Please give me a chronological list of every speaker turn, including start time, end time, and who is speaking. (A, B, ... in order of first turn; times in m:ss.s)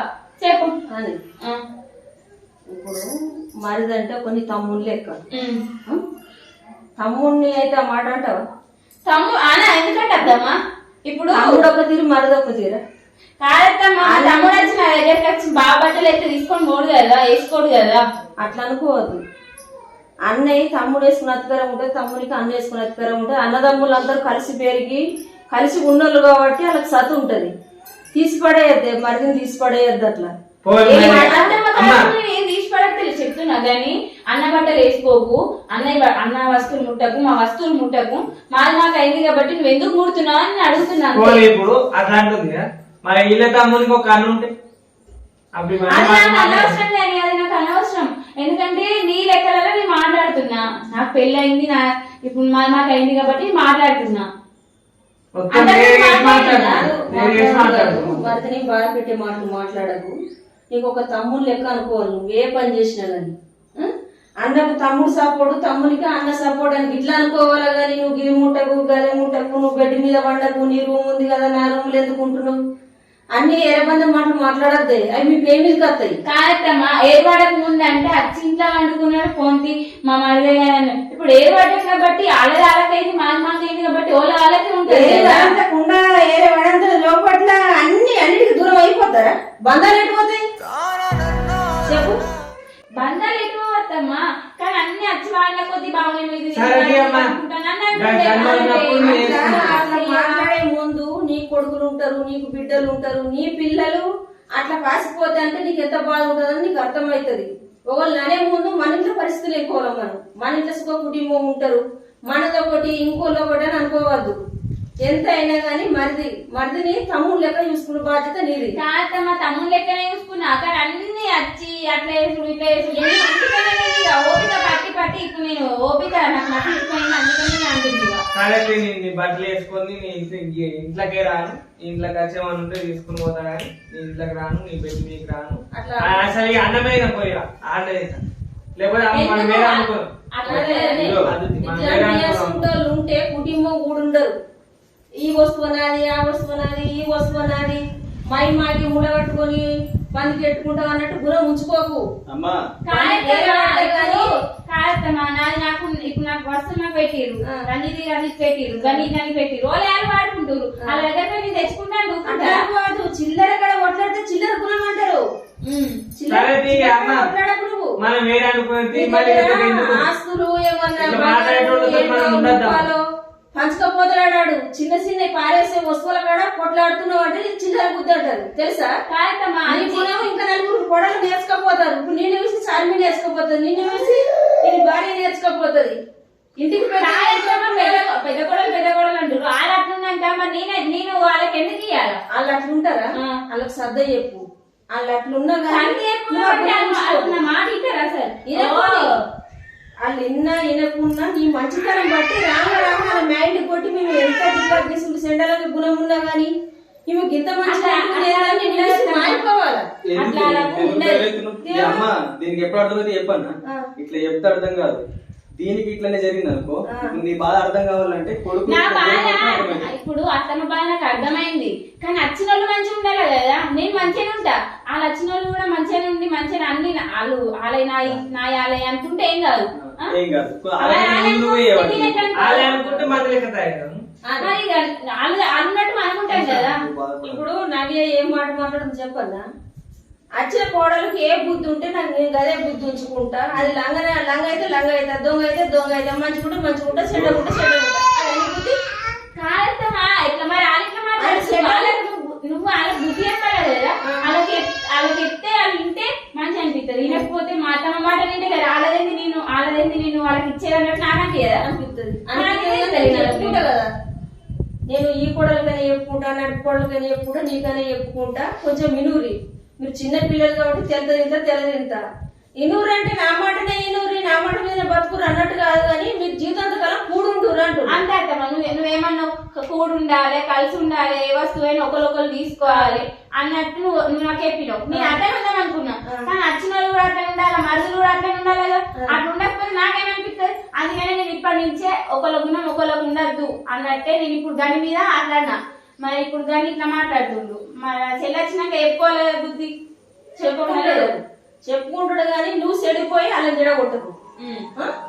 0:00.4-0:00.7 A
0:00.9-0:01.2 B
0:02.7-0:03.0 B
0:03.6-0:05.2 B
0:05.3-0:05.6 A
0:07.0-0:08.4 B
0:09.0-0:10.5 A
0:11.1-0:11.6 A
0:11.3-0:12.8 B
0:13.4-0:18.0 A
0:14.1-0:14.7 B
0:18.4-0:19.2 B
0:20.2-0:27.5 B
0:28.1-0:30.3 B
0:30.6-0:32.1 C
0:30.8-0:31.5 B
0:30.9-0:41.4 A
0:41.1-0:44.5 C
0:45.6-0:46.8 C
0:45.9-0:54.2 A
0:55.4-0:58.1 C
0:55.5-0:56.8 A
0:56.1-1:00.1 B
1:00.7-1:12.6 B
1:13.3-1:16.1 B
1:16.2-1:25.5 A
1:24.9-1:30.4 B
1:31.9-1:32.2 B
1:33.0-1:40.5 A
1:36.5-1:37.3 C
1:37.9-1:39.8 C
1:38.2-1:54.4 B
1:55.0-1:58.8 B
1:58.7-2:08.2 A
2:08.3-2:18.2 C
2:15.7-2:16.1 B
2:18.8-2:22.6 C
2:19.1-2:21.1 A
2:20.4-2:24.4 B
2:21.0-2:21.3 D
2:25.2-2:32.0 B
2:32.3-2:32.6 D
2:32.9-2:42.6 A
2:32.9-2:34.2 B
2:38.8-2:39.1 B
2:42.2-2:45.2 B
2:45.6-2:46.0 A
2:46.2-2:47.9 B
2:46.3-2:47.2 C
2:48.0-2:50.0 C
2:48.9-2:53.0 B
2:51.0-2:52.9 C
2:53.5-2:58.9 B
2:59.1-3:00.1 A
2:59.7-3:06.0 B
3:06.6-3:08.1 B
3:07.0-3:12.2 A
3:12.3-3:17.4 B
3:15.7-3:19.1 A
3:18.5-3:19.1 B
3:20.0-3:26.5 B
3:27.1-3:29.8 B
3:27.7-3:29.4 A
3:30.1-3:35.0 D
3:30.2-3:31.2 A
3:31.6-3:32.1 B
3:35.6-3:39.9 D
3:36.9-3:37.2 B
3:38.6-3:50.1 A
3:49.7-3:52.2 D
3:50.8-3:52.7 A
3:52.3-3:54.0 C
3:52.5-3:53.2 B
3:54.3-3:54.5 B
3:54.4-3:56.8 A
3:56.4-3:57.4 D
3:57.2-3:59.4 B
4:00.4-4:08.8 B
4:06.9-4:07.4 D
4:09.4-4:21.6 A
4:11.2-4:11.9 B
4:21.6-4:23.9 B
4:22.3-4:23.6 A
4:24.9-4:32.0 B
4:32.6-4:38.0 B
4:37.9-4:59.7 A
4:42.7-4:43.0 B
5:00.4-5:01.1 A
5:00.6-5:04.1 B
5:04.4-5:04.6 A